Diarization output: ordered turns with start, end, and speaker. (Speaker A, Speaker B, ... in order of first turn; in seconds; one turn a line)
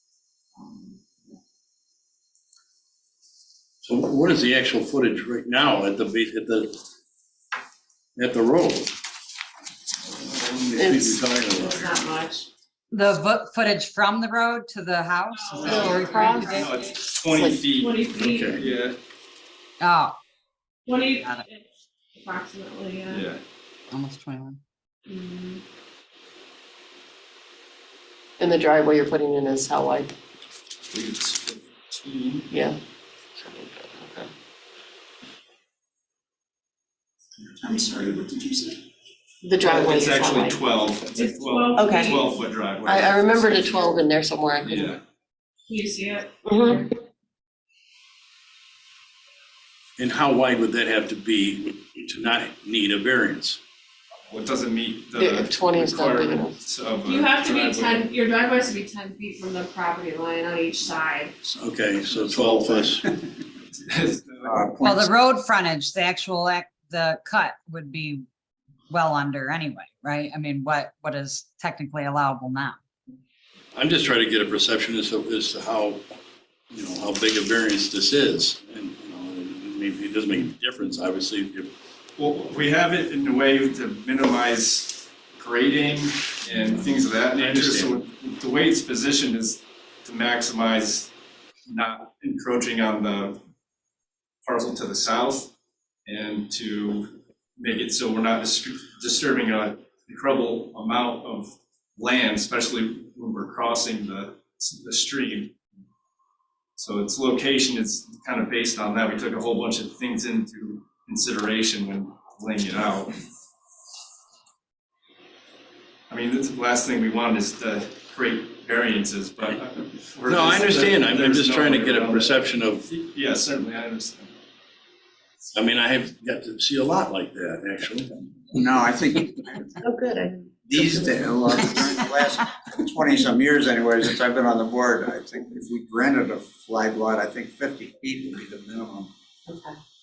Speaker A: 0.6-1.4
Speaker B: 3.8-6.8
Speaker B: 8.2-8.9
Speaker B: 10.2-12.0
Speaker C: 10.8-11.2
Speaker A: 11.5-12.5
Speaker D: 12.9-16.7
Speaker A: 15.3-16.9
Speaker C: 15.6-16.6
Speaker E: 16.4-18.0
Speaker C: 17.3-17.6
Speaker A: 17.7-18.6
Speaker B: 18.1-18.6
Speaker E: 18.6-18.9
Speaker D: 19.8-20.2
Speaker A: 20.8-23.2
Speaker E: 23.1-23.4
Speaker D: 23.9-24.6
Speaker A: 25.1-25.6
Speaker C: 28.4-30.1
Speaker E: 30.9-32.5
Speaker C: 32.5-32.8
Speaker C: 33.4-34.3
Speaker F: 37.4-38.8
Speaker C: 39.4-40.6
Speaker E: 39.6-43.6
Speaker A: 41.1-42.4
Speaker C: 41.8-42.1
Speaker C: 42.8-44.9
Speaker E: 44.6-45.0
Speaker A: 45.7-46.9
Speaker C: 46.5-46.8
Speaker B: 50.0-53.6
Speaker E: 54.3-58.1
Speaker C: 55.1-56.5
Speaker A: 57.0-61.3
Speaker B: 61.6-63.0
Speaker F: 62.0-63.3
Speaker E: 63.7-64.6
Speaker F: 64.4-65.1
Speaker D: 64.8-68.2
Speaker D: 68.9-72.8
Speaker B: 73.7-76.0
Speaker B: 76.7-81.7
Speaker E: 82.2-91.1
Speaker B: 87.2-88.0
Speaker E: 91.7-93.4
Speaker E: 94.4-95.5
Speaker E: 96.0-105.6
Speaker E: 106.8-113.2
Speaker E: 116.1-124.3
Speaker B: 120.2-122.9
Speaker B: 125.5-128.1
Speaker F: 128.5-129.8
Speaker C: 129.8-130.8
Speaker F: 130.7-139.1
Speaker C: 139.5-139.8